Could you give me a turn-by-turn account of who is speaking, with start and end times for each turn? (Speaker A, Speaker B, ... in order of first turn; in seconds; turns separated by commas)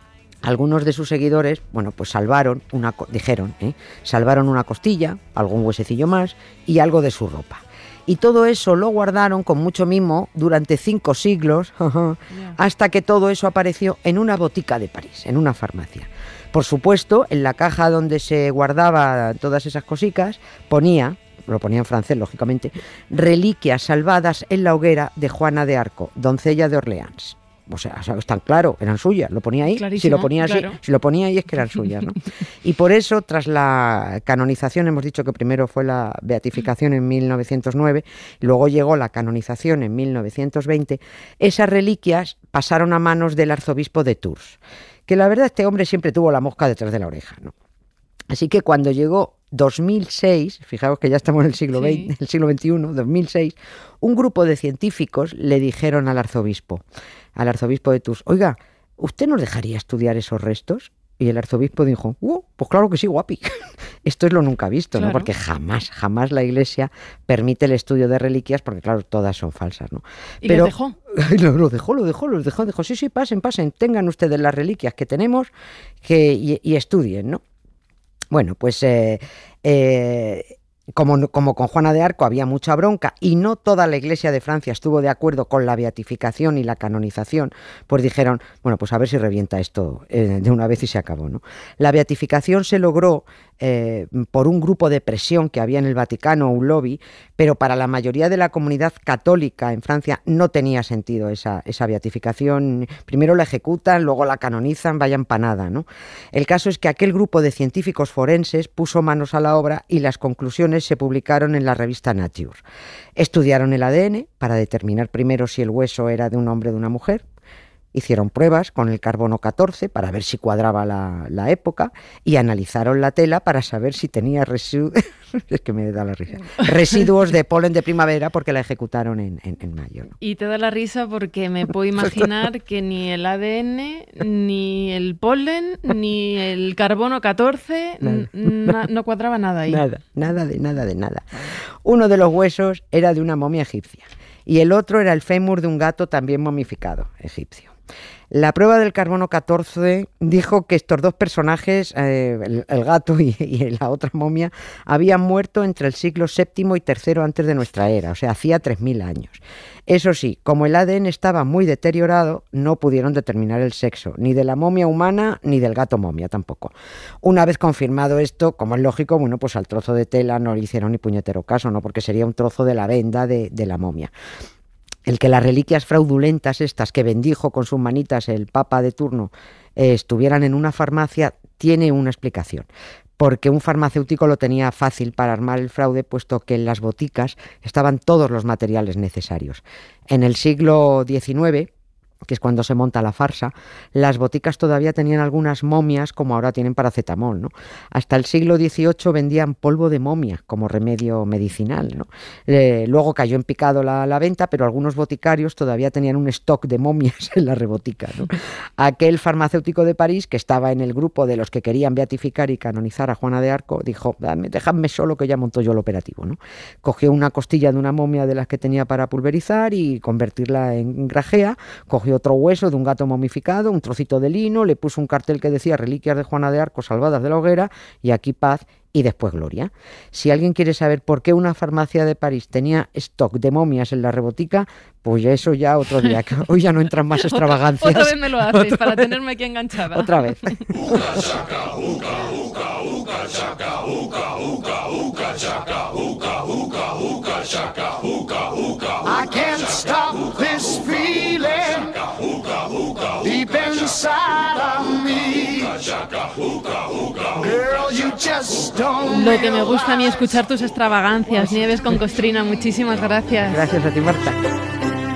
Speaker A: 0.5-47.5, Speaker B: 12.3-12.6, Speaker B: 29.7-30.8, Speaker A: 48.3-56.8, Speaker B: 51.7-52.1, Speaker A: 57.4-75.5, Speaker B: 65.0-65.3, Speaker B: 70.4-71.0, Speaker A: 76.0-77.4, Speaker A: 78.3-112.6, Speaker A: 113.2-117.2, Speaker A: 117.9-130.2, Speaker B: 130.2-139.9, Speaker A: 138.0-138.8, Speaker A: 139.7-147.7, Speaker A: 148.3-174.1, Speaker A: 175.1-182.7, Speaker A: 183.2-191.7, Speaker A: 192.3-239.1, Speaker B: 237.2-240.7, Speaker A: 239.9-241.4, Speaker B: 259.0-263.7, Speaker A: 263.4-264.4